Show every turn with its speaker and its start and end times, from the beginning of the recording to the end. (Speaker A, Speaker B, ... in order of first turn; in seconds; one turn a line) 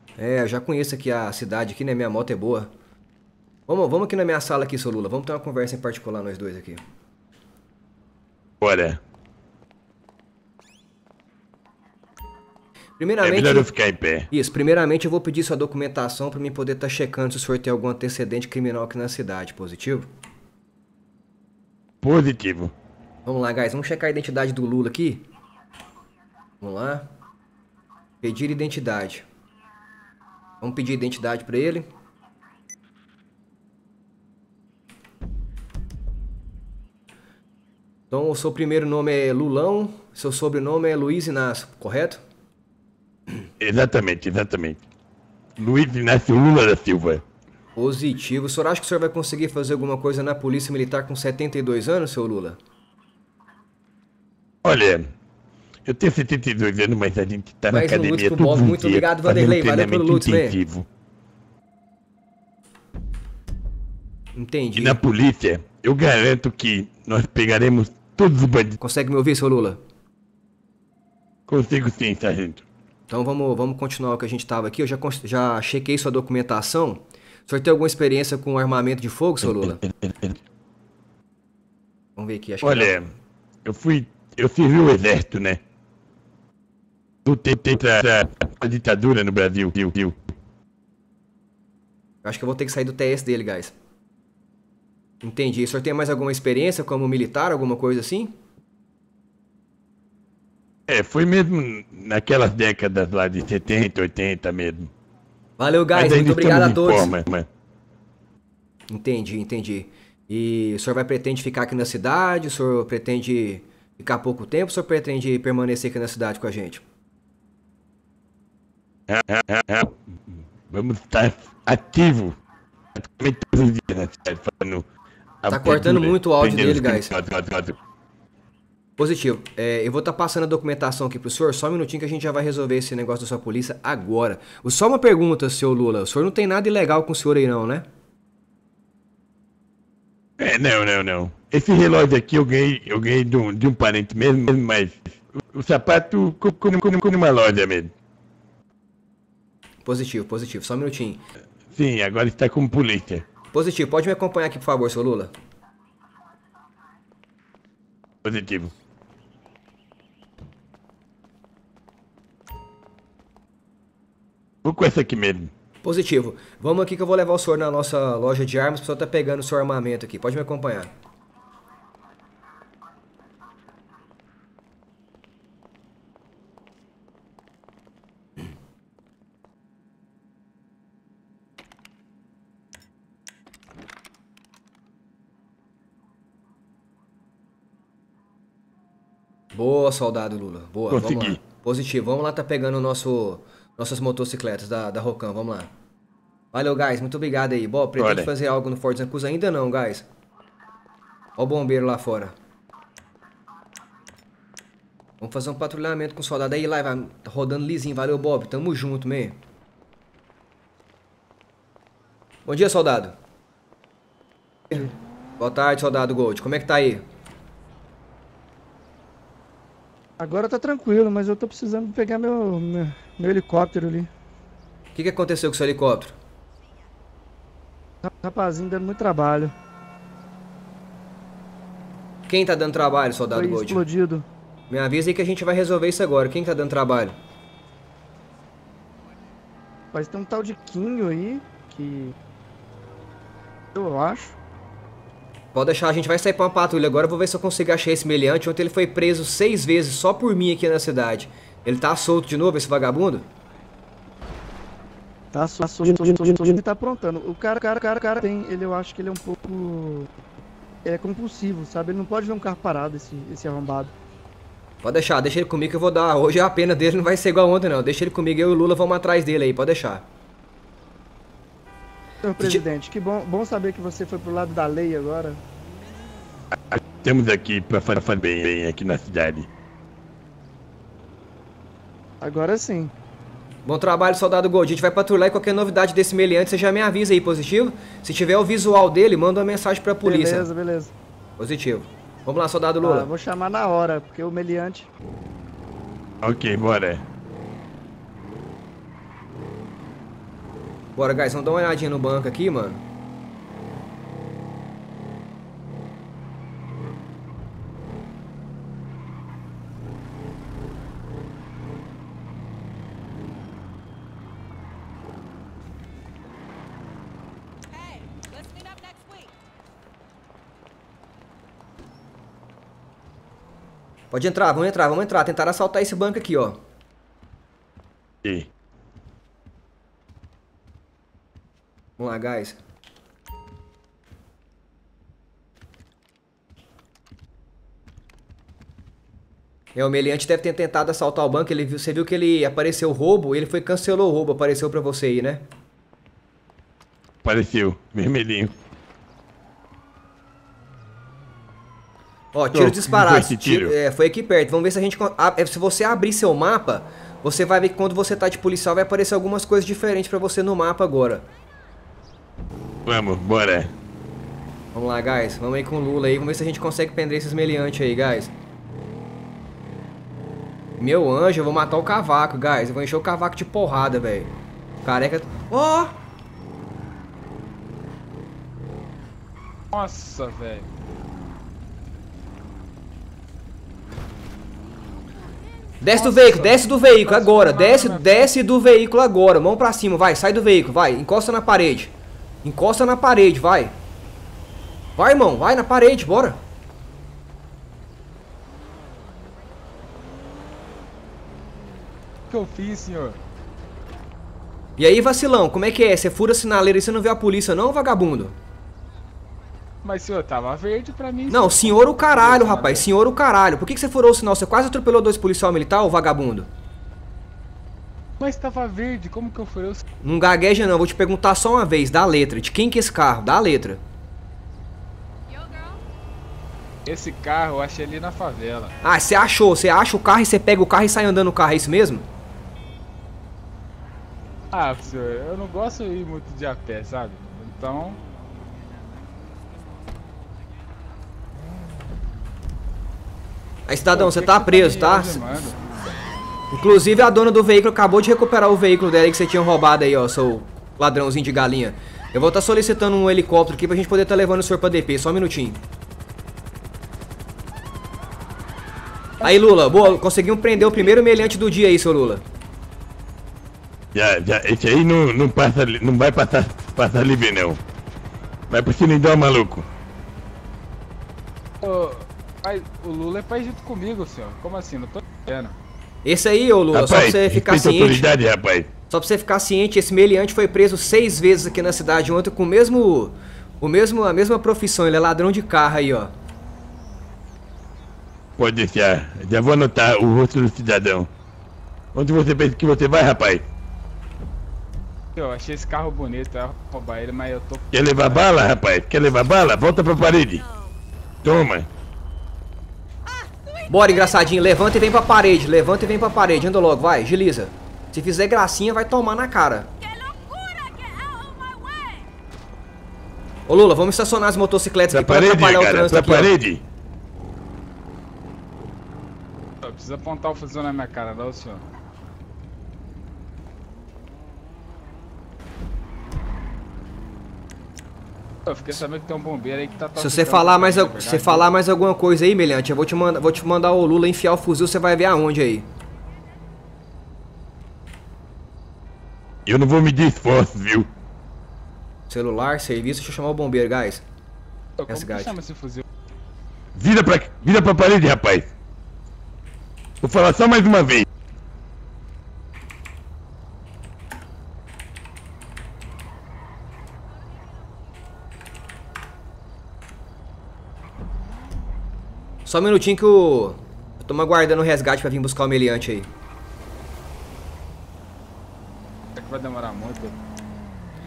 Speaker A: 0.2-2.7
Speaker A: 3.7-6.8
Speaker B: 8.6-9.0
Speaker A: 13.0-13.7
Speaker B: 13.2-14.3
Speaker A: 14.3-20.1
Speaker B: 22.0-22.7
Speaker A: 23.2-25.3
Speaker A: 26.6-27.1
Speaker A: 28.2-29.2
Speaker A: 30.6-31.9
Speaker A: 38.1-42.2
Speaker B: 43.6-44.8
Speaker B: 45.6-47.2
Speaker A: 47.8-52.6
Speaker B: 54.6-55.1
Speaker B: 55.9-60.9
Speaker A: 57.7-60.6
Speaker A: 64.3-65.0
Speaker B: 64.8-68.8
Speaker A: 68.8-69.8
Speaker B: 71.5-72.7
Speaker A: 73.1-79.8
Speaker B: 79.4-80.4
Speaker A: 82.2-83.0
Speaker B: 82.6-83.1
Speaker B: 83.7-85.6
Speaker B: 87.2-90.2
Speaker A: 92.2-93.7
Speaker A: 95.2-98.3
Speaker B: 100.9-104.9
Speaker A: 105.6-107.2
Speaker B: 106.0-107.5
Speaker A: 108.9-116.8
Speaker B: 119.1-120.0
Speaker B: 120.7-122.4
Speaker B: 123.0-124.8
Speaker B: 125.4-127.8
Speaker A: 125.5-127.1
Speaker A: 129.0-137.9
Speaker B: 140.4-147.9
Speaker A: 149.8-151.2
Speaker B: 151.7-153.2
Speaker A: 153.5-155.3
Speaker B: 158.2-158.7
Speaker B: 164.6-165.5
Speaker A: 165.8-170.9
Speaker A: 189.5-195.7
Speaker B: 190.9-191.4
Speaker A: 196.5-200.1
Speaker B: 198.0-198.3
Speaker A: 201.4-202.3
Speaker A: 205.2-209.4
Speaker A: 212.5-213.2
Speaker A: 214.7-217.1
Speaker C: 220.2-224.1
Speaker A: 224.9-226.2
Speaker C: 228.0-229.5
Speaker A: 232.3-233.8
Speaker C: 233.3-234.3
Speaker A: 234.7-237.2
Speaker C: 239.9-242.2
Speaker C: 243.7-244.4
Speaker A: 245.5-253.3
Speaker C: 255.3-260.1
Speaker C: 260.9-263.9
Speaker A: 264.8-270.1
Speaker C: 272.2-275.4
Speaker B: 276.6-279.5
Speaker C: 282.2-282.9
Speaker A: 283.6-290.5
Speaker C: 290.1-290.9
Speaker A: 291.4-293.1
Speaker C: 292.8-294.9
Speaker B: 296.2-297.0
Speaker A: 301.0-302.8
Speaker A: 324.1-326.6
Speaker B: 328.2-328.5
Speaker A: 332.0-332.6
Speaker A: 339.8-345.4
Speaker B: 347.2-348.5
Speaker A: 352.3-361.3
Speaker B: 352.5-353.8
Speaker B: 362.9-363.7
Speaker A: 364.7-368.3
Speaker A: 370.8-376.0
Speaker D: 379.7-380.7
Speaker A: 385.8-391.9
Speaker D: 385.9-388.3
Speaker A: 392.4-393.8
Speaker A: 395.0-396.4
Speaker D: 402.3-403.2
Speaker A: 404.8-408.4
Speaker D: 409.8-412.9
Speaker A: 411.3-416.5
Speaker D: 418.2-419.8
Speaker A: 420.0-423.8
Speaker D: 426.9-428.7
Speaker A: 428.8-432.1
Speaker D: 434.5-438.0
Speaker A: 443.7-445.2
Speaker D: 443.9-445.6
Speaker A: 446.5-455.6
Speaker A: 459.2-462.2
Speaker D: 459.2-459.9
Speaker D: 460.8-461.1
Speaker B: 463.9-467.6
Speaker B: 468.5-469.7
Speaker D: 471.6-475.6
Speaker A: 476.1-478.1
Speaker B: 476.7-478.7
Speaker A: 478.9-486.1
Speaker B: 488.4-491.1
Speaker B: 491.9-493.5
Speaker D: 495.2-498.3
Speaker B: 497.7-500.4
Speaker B: 501.2-501.7
Speaker A: 503.7-509.7
Speaker E: 510.0-512.0
Speaker A: 513.5-516.3
Speaker B: 514.9-516.6
Speaker D: 519.6-521.6
Speaker D: 528.5-531.5
Speaker A: 530.0-535.7
Speaker B: 539.5-540.9
Speaker A: 542.1-544.0
Speaker D: 544.8-545.9
Speaker A: 544.9-545.4
Speaker B: 546.8-548.5
Speaker B: 550.0-551.1
Speaker A: 562.5-566.1
Speaker D: 569.2-570.2